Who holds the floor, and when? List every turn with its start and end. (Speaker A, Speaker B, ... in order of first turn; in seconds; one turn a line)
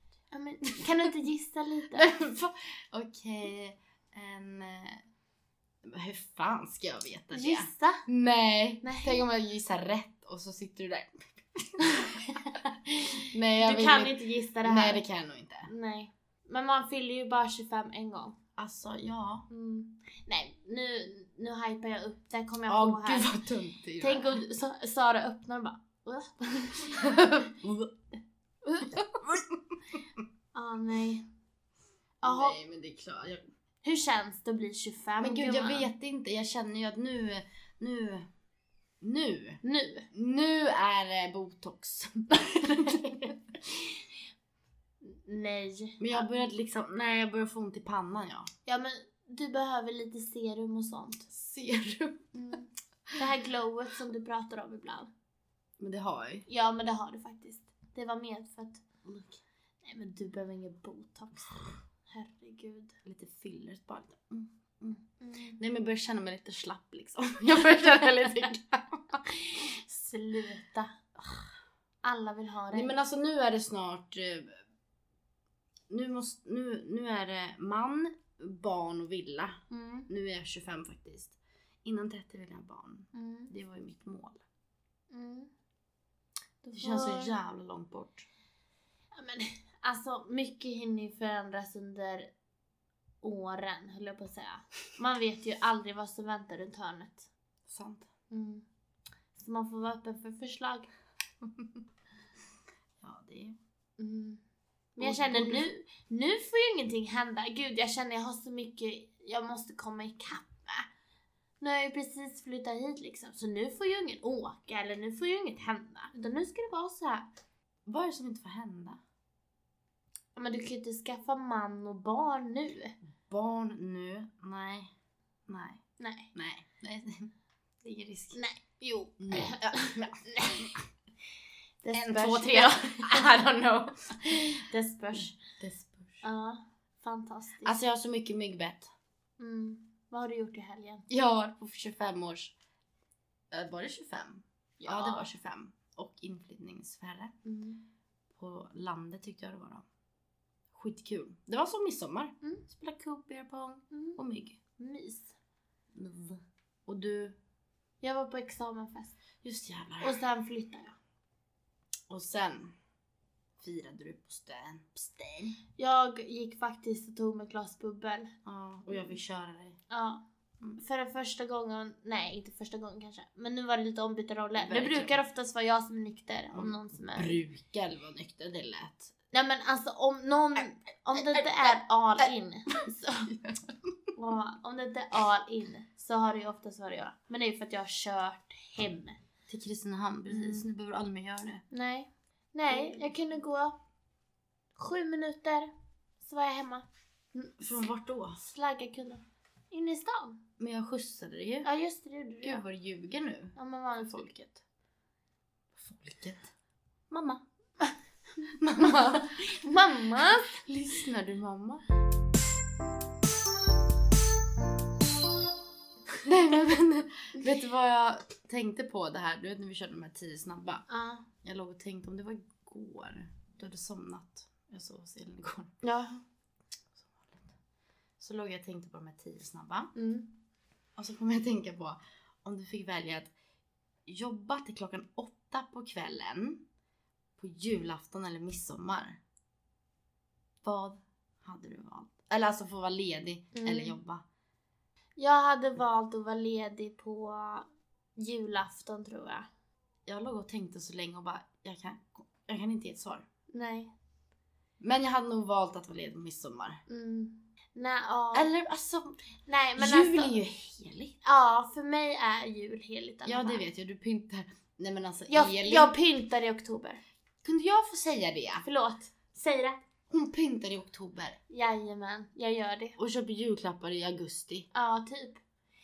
Speaker A: 0.3-2.2
Speaker B: 2.0-5.0
Speaker B: 5.8-12.2
Speaker A: 7.3-8.0
Speaker A: 8.8-9.2
Speaker A: 11.9-15.0
Speaker B: 13.3-15.7
Speaker A: 15.7-18.4
Speaker B: 18.6-19.5
Speaker A: 19.5-23.3
Speaker B: 22.7-24.4
Speaker A: 24.0-27.2
Speaker B: 26.9-27.9
Speaker A: 28.7-29.0
Speaker B: 29.0-29.4
Speaker A: 30.5-31.3
Speaker A: 32.2-32.6
Speaker B: 32.2-33.5
Speaker A: 33.8-35.9
Speaker B: 35.2-38.3
Speaker B: 39.0-39.6
Speaker A: 39.6-40.1
Speaker B: 40.1-43.4
Speaker A: 45.0-46.3
Speaker B: 46.0-48.5
Speaker A: 48.7-51.3
Speaker B: 51.3-52.3
Speaker A: 52.3-55.1
Speaker B: 55.8-56.5
Speaker A: 56.5-58.9
Speaker B: 59.0-59.4
Speaker A: 59.8-62.9
Speaker B: 63.0-69.0
Speaker A: 65.2-65.6
Speaker A: 69.5-70.9
Speaker A: 72.0-73.0
Speaker B: 72.7-74.6
Speaker B: 75.9-84.4
Speaker A: 79.7-80.1
Speaker A: 83.1-83.5
Speaker A: 85.1-85.5
Speaker A: 86.6-87.3
Speaker B: 86.8-88.3
Speaker A: 89.2-92.3
Speaker A: 93.2-97.3
Speaker B: 97.7-98.1
Speaker A: 98.3-98.7
Speaker A: 99.3-100.9
Speaker B: 103.0-103.6
Speaker A: 104.0-104.4
Speaker A: 105.0-110.9
Speaker B: 105.0-105.7
Speaker A: 111.6-117.3
Speaker B: 117.9-119.0
Speaker A: 120.4-123.0
Speaker B: 123.3-124.9
Speaker B: 125.5-125.8
Speaker A: 126.0-126.3
Speaker B: 126.3-127.3
Speaker B: 127.8-128.4
Speaker A: 128.3-130.7
Speaker B: 129.2-130.8
Speaker A: 131.8-133.5
Speaker B: 131.9-134.2
Speaker A: 134.5-135.4
Speaker B: 135.2-136.2
Speaker A: 136.2-137.7
Speaker B: 137.6-138.9
Speaker A: 139.4-141.1
Speaker B: 141.1-142.5
Speaker B: 143.5-147.3
Speaker A: 144.8-145.3
Speaker A: 147.4-147.8
Speaker B: 148.3-149.8
Speaker B: 150.7-154.6
Speaker A: 153.9-154.2
Speaker A: 154.8-155.3
Speaker B: 155.9-157.4
Speaker A: 158.0-159.2
Speaker B: 159.4-160.2
Speaker A: 160.0-161.0
Speaker B: 162.1-162.7
Speaker B: 163.6-165.6
Speaker A: 165.8-168.3
Speaker B: 168.5-169.8
Speaker A: 169.9-170.2
Speaker A: 170.8-177.4
Speaker B: 174.6-175.2
Speaker B: 176.5-179.1
Speaker A: 179.3-183.3
Speaker B: 181.2-182.3
Speaker B: 183.3-183.8
Speaker A: 184.2-189.2
Speaker B: 189.5-191.6
Speaker A: 190.3-190.7
Speaker A: 191.7-193.8
Speaker B: 192.7-193.0
Speaker A: 194.8-197.8
Speaker B: 197.6-198.4
Speaker A: 198.4-200.4
Speaker B: 200.6-201.7
Speaker A: 201.6-202.6
Speaker B: 202.4-204.6
Speaker A: 203.6-204.3
Speaker B: 205.8-206.5
Speaker B: 207.1-207.4
Speaker B: 208.6-209.4
Speaker A: 208.8-210.7
Speaker B: 210.7-211.8
Speaker B: 216.2-220.9
Speaker A: 220.9-221.3
Speaker B: 221.4-225.7
Speaker A: 225.8-226.2
Speaker B: 227.0-227.5
Speaker B: 228.2-229.9
Speaker A: 229.9-230.3
Speaker B: 231.0-233.3
Speaker B: 234.1-236.6
Speaker B: 237.4-239.2
Speaker B: 240.6-244.2
Speaker A: 243.5-244.0
Speaker A: 245.2-249.5
Speaker B: 250.1-253.2
Speaker A: 253.5-253.9
Speaker B: 254.8-256.8
Speaker A: 256.9-258.5
Speaker B: 258.3-259.2
Speaker A: 259.5-260.4
Speaker B: 259.8-261.1
Speaker A: 261.2-263.7
Speaker B: 263.2-265.9
Speaker A: 265.3-267.0
Speaker B: 267.4-268.7
Speaker A: 268.6-269.8
Speaker B: 270.1-271.4
Speaker A: 271.5-273.0
Speaker B: 273.0-274.7
Speaker A: 274.7-275.4